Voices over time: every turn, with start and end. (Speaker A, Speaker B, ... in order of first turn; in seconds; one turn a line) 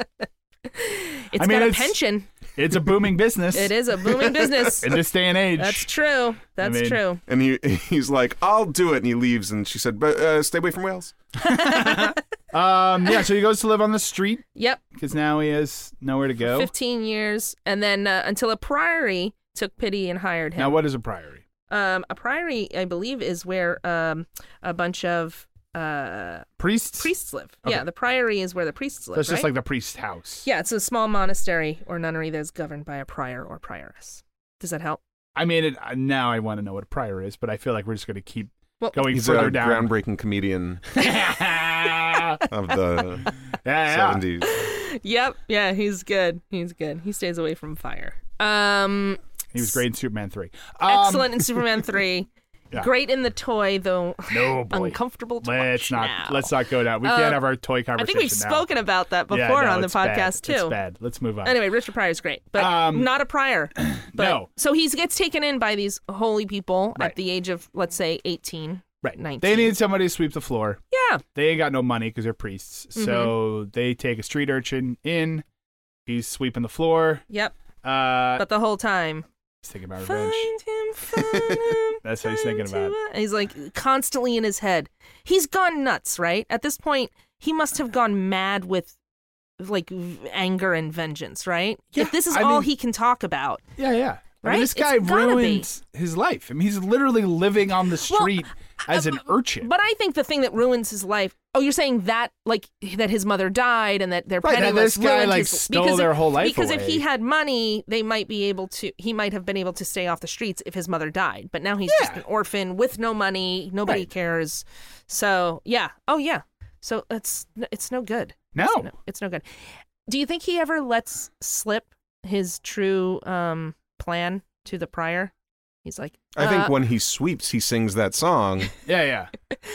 Speaker A: 0.7-2.3
Speaker B: 1.4-2.0
Speaker B: 2.5-5.9
Speaker A: 3.5-5.0
Speaker A: 5.6-7.2
Speaker B: 6.6-7.0
Speaker C: 7.3-11.1
Speaker B: 11.4-16.7
Speaker A: 11.5-12.2
Speaker A: 14.6-14.8
Speaker A: 16.4-20.8
Speaker B: 20.6-21.4
Speaker A: 21.7-29.5
Speaker B: 26.6-27.1
Speaker B: 29.1-30.4
Speaker A: 30.4-35.0
Speaker B: 35.4-39.9
Speaker A: 38.8-39.1
Speaker C: 39.1-40.8
Speaker B: 40.9-42.4
Speaker C: 42.5-43.3
Speaker B: 43.6-44.2
Speaker C: 43.8-44.6
Speaker A: 44.4-49.8
Speaker B: 49.5-51.7
Speaker A: 50.9-60.8
Speaker B: 54.3-58.7
Speaker B: 59.3-61.6
Speaker A: 61.4-69.8
Speaker B: 62.5-63.2
Speaker B: 63.8-64.5
Speaker B: 69.0-70.8
Speaker A: 70.9-71.2
Speaker B: 71.3-75.4
Speaker A: 73.0-73.3
Speaker B: 76.0-77.2
Speaker A: 77.3-77.5
Speaker B: 77.8-78.4
Speaker A: 78.3-79.2
Speaker B: 79.6-80.5
Speaker A: 80.0-88.9
Speaker B: 82.0-82.9
Speaker A: 89.6-93.6
Speaker B: 91.9-92.7
Speaker B: 93.8-99.7
Speaker A: 94.4-95.7
Speaker A: 98.1-125.3
Speaker B: 104.4-107.0
Speaker B: 111.9-112.2
Speaker B: 118.5-118.9
Speaker A: 125.8-126.8
Speaker C: 126.3-128.7
Speaker B: 128.8-129.3